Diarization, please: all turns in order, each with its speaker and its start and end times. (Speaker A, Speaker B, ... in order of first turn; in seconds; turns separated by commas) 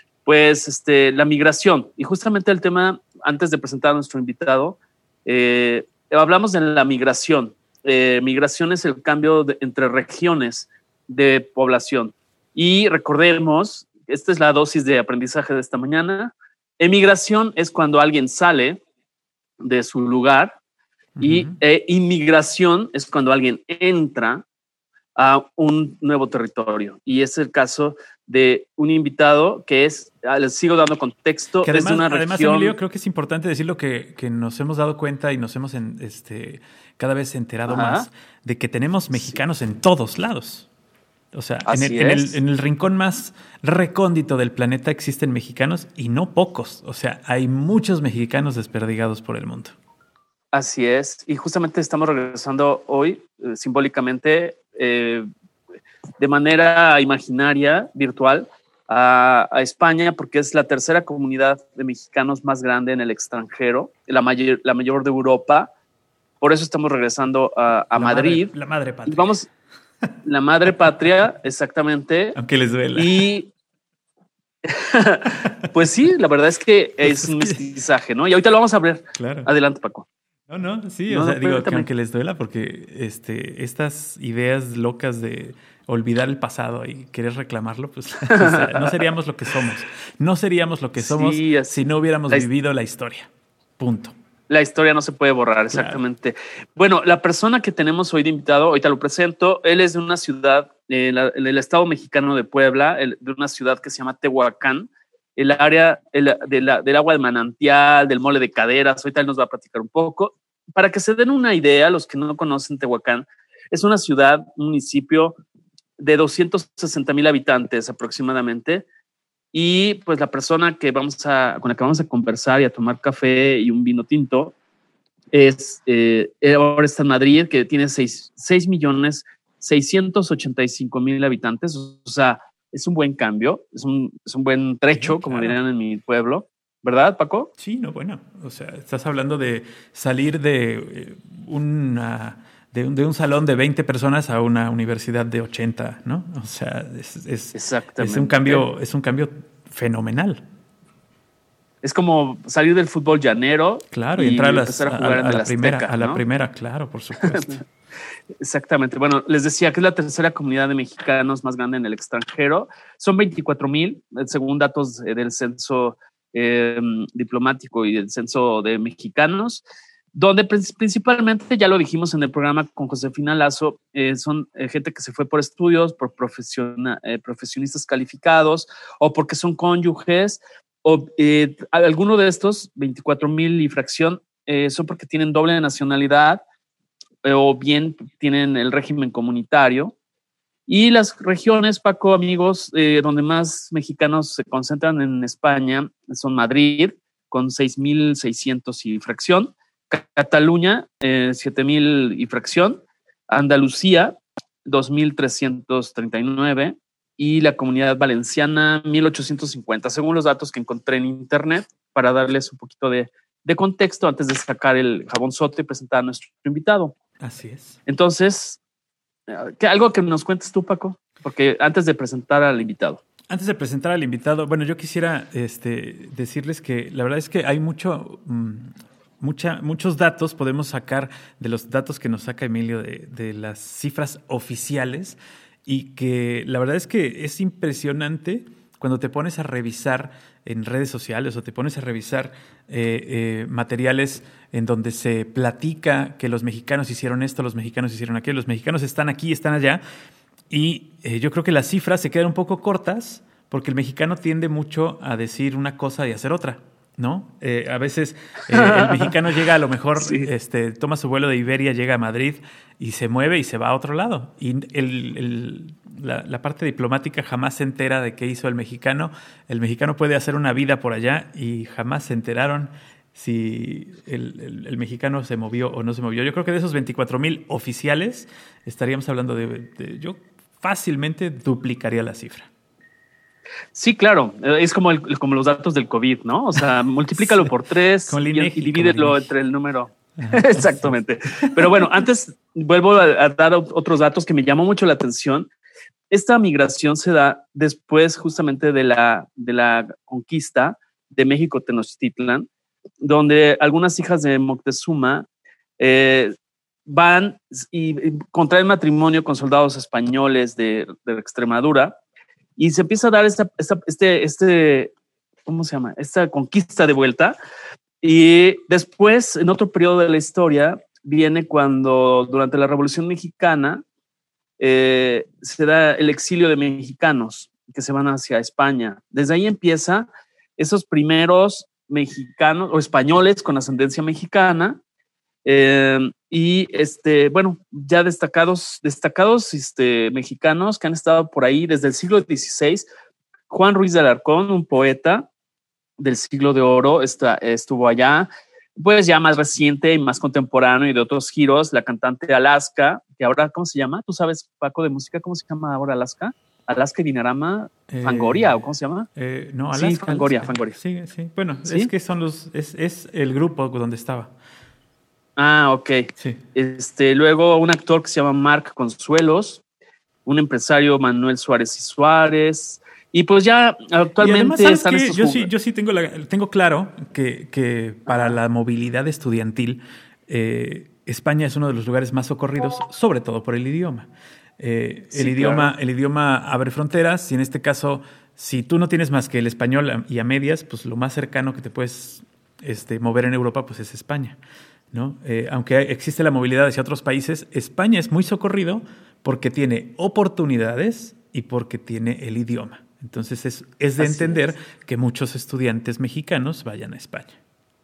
Speaker A: 0.2-18.8, Speaker A: 19.6-20.6, Speaker B: 21.2-21.6, Speaker A: 21.2-24.4, Speaker A: 25.2-32.8, Speaker B: 31.6-40.7, Speaker A: 37.7-38.1, Speaker A: 39.1-39.4, Speaker B: 41.3-49.8, Speaker A: 41.7-42.4, Speaker A: 50.5-55.3, Speaker A: 56.2-65.7, Speaker A: 66.4-68.5, Speaker B: 68.0-69.3, Speaker A: 69.1-69.5, Speaker A: 70.2-72.4, Speaker B: 72.3-73.2, Speaker A: 73.0-73.5, Speaker A: 74.7-80.1, Speaker B: 77.0-77.6, Speaker B: 79.2-79.5, Speaker B: 80.5-94.1, Speaker A: 81.1-81.9, Speaker A: 88.3-88.9, Speaker A: 91.0-92.5, Speaker A: 94.5-115.4, Speaker B: 95.7-96.0, Speaker A: 116.0-118.9, Speaker A: 119.5-124.5, Speaker A: 125.3-137.5, Speaker B: 134.9-135.6, Speaker B: 137.6-150.4, Speaker A: 147.5-148.7, Speaker A: 151.8-156.2, Speaker B: 153.9-157.6, Speaker A: 157.2-157.6, Speaker A: 158.4-169.6, Speaker A: 170.1-186.4, Speaker A: 187.2-189.9, Speaker A: 190.7-216.9, Speaker B: 217.2-217.8, Speaker A: 217.9-218.6, Speaker A: 219.3-223.0, Speaker B: 223.3-249.8, Speaker B: 250.5-282.5, Speaker A: 258.5-259.1, Speaker A: 260.0-260.3, Speaker A: 283.8-295.5, Speaker B: 287.2-287.5, Speaker B: 288.1-289.3, Speaker B: 290.2-291.5, Speaker A: 296.1-302.5, Speaker A: 303.0-305.3, Speaker A: 305.8-306.4, Speaker A: 306.9-312.0, Speaker A: 312.6-314.9, Speaker A: 315.5-317.4, Speaker A: 318.0-323.8, Speaker A: 324.6-334.8, Speaker A: 335.4-342.9, Speaker A: 343.5-345.3, Speaker A: 346.0-359.1, Speaker B: 357.9-358.6, Speaker B: 359.1-364.3, Speaker A: 359.7-360.8, Speaker A: 365.4-369.6, Speaker A: 370.3-375.5, Speaker B: 374.2-384.1, Speaker A: 378.1-378.4, Speaker B: 384.6-394.4, Speaker A: 385.1-385.7, Speaker B: 394.9-407.4, Speaker A: 404.0-404.5